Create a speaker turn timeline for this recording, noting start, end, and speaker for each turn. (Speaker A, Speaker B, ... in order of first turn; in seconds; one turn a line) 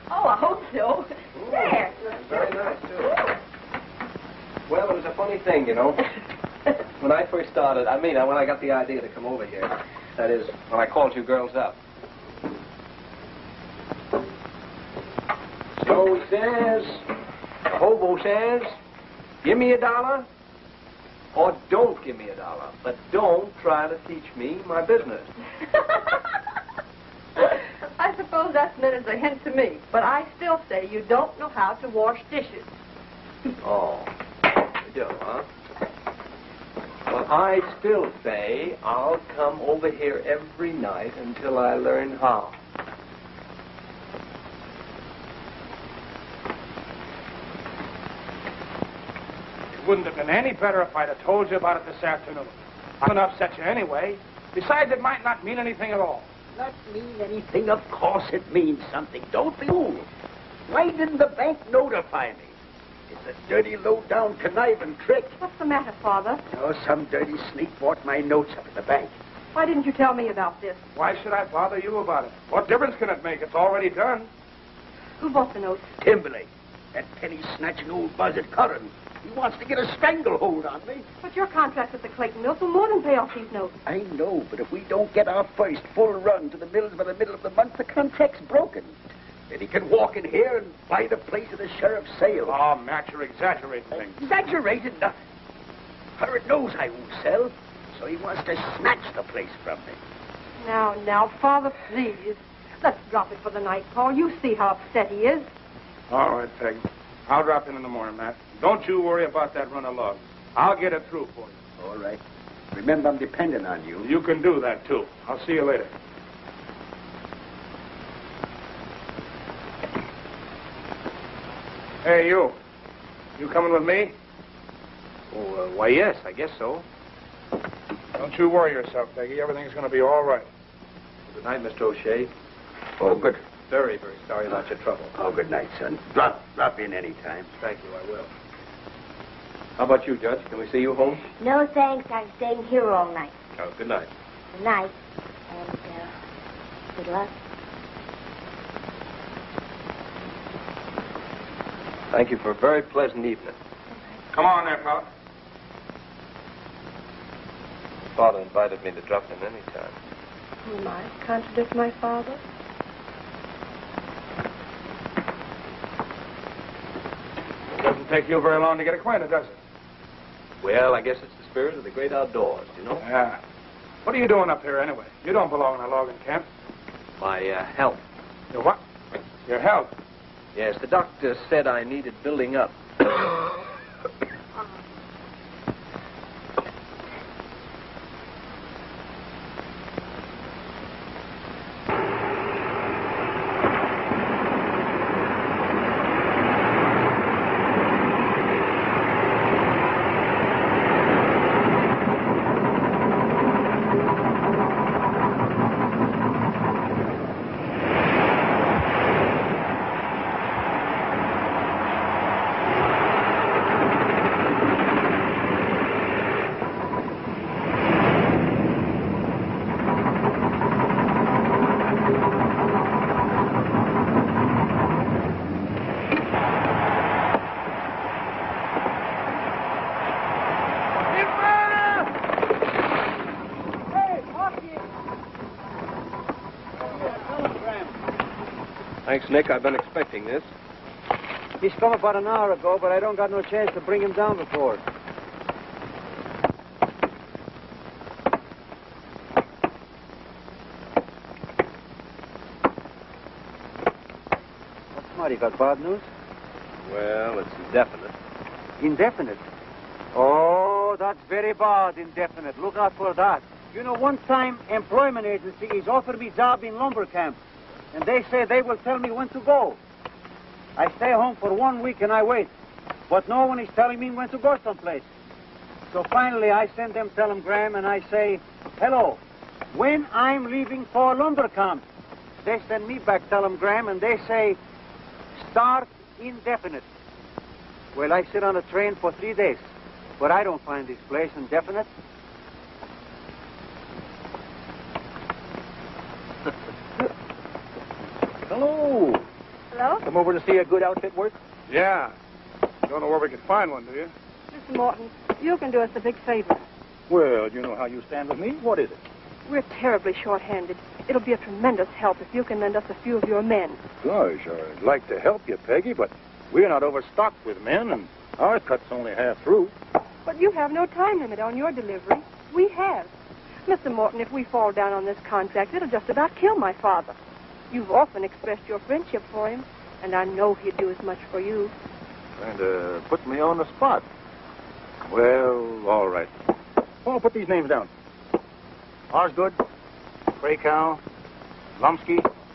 Speaker A: 0.2-1.1
Speaker B: 1.4-3.2
Speaker C: 1.4-2.6
Speaker B: 4.7-6.1
Speaker B: 7.0-11.8
Speaker B: 15.8-17.1
Speaker B: 17.7-18.7
Speaker B: 19.4-20.3
Speaker B: 21.4-25.3
Speaker A: 27.4-32.7
Speaker B: 33.6-34.1
Speaker B: 34.8-35.5
Speaker B: 37.1-42.5
Speaker D: 49.8-56.3
Speaker E: 56.5-60.1
Speaker E: 60.7-62.5
Speaker E: 63.1-65.4
Speaker A: 65.4-66.4
Speaker E: 66.5-69.1
Speaker A: 69.5-70.8
Speaker D: 71.0-74.3
Speaker A: 75.2-75.9
Speaker E: 76.0-81.0
Speaker A: 81.2-83.7
Speaker E: 83.9-89.0
Speaker E: 89.5-92.6
Speaker D: 92.4-94.2
Speaker E: 93.9-95.1
Speaker E: 96.2-100.0
Speaker A: 100.6-105.5
Speaker D: 106.1-111.6
Speaker E: 111.8-112.2
Speaker E: 112.7-114.1
Speaker D: 114.0-115.9
Speaker D: 122.0-122.5
Speaker D: 123.4-124.1
Speaker B: 125.3-126.8
Speaker D: 128.2-130.5
Speaker B: 131.3-132.3
Speaker E: 133.0-133.4
Speaker B: 133.0-135.1
Speaker E: 135.1-137.5
Speaker B: 137.6-138.3
Speaker B: 139.8-141.2
Speaker C: 141.4-143.3
Speaker B: 143.6-144.1
Speaker C: 144.5-144.9
Speaker C: 145.5-146.1
Speaker C: 146.9-147.3
Speaker B: 152.1-153.6
Speaker D: 154.3-155.1
Speaker B: 158.2-159.9
Speaker A: 160.6-162.4
Speaker D: 167.8-169.6
Speaker B: 170.6-173.0
Speaker D: 173.0-173.4
Speaker D: 174.1-176.5
Speaker B: 177.2-178.0
Speaker D: 178.5-178.8
Speaker D: 179.5-179.9
Speaker B: 180.6-183.1
Speaker F: 237.4-237.8
Speaker B: 239.1-240.5
Speaker F: 241.6-244.8
Speaker F: 254.9-256.1
Speaker B: 256.9-258.1
Speaker F: 258.8-259.4
Speaker F: 260.1-267.4
Speaker F: 267.9-269.8
Speaker F: 270.8-272.5
Speaker F: 273.1-275.1
Speaker F: 275.9-279.2
Speaker F: 279.7-281.8
Speaker F: 282.4-284.6
Speaker F: 285.4-286.9
Speaker F: 287.9-289.6
Speaker F: 290.2-291.9
Speaker G: 298.5-299.2
Speaker A: 299.7-300.0
Speaker G: 300.0-301.3
Speaker D: 301.7-302.1
Speaker D: 302.9-304.1
Speaker A: 304.5-306.6
Speaker G: 307.1-309.0
Speaker A: 309.5-313.8
Speaker G: 314.0-319.7
Speaker A: 320.3-323.1
Speaker A: 323.7-327.1
Speaker A: 327.7-331.7
Speaker G: 332.4-334.0
Speaker G: 335.1-336.3
Speaker G: 337.0-337.9
Speaker G: 339.1-339.6
Speaker G: 340.4-341.0
Speaker G: 341.8-342.3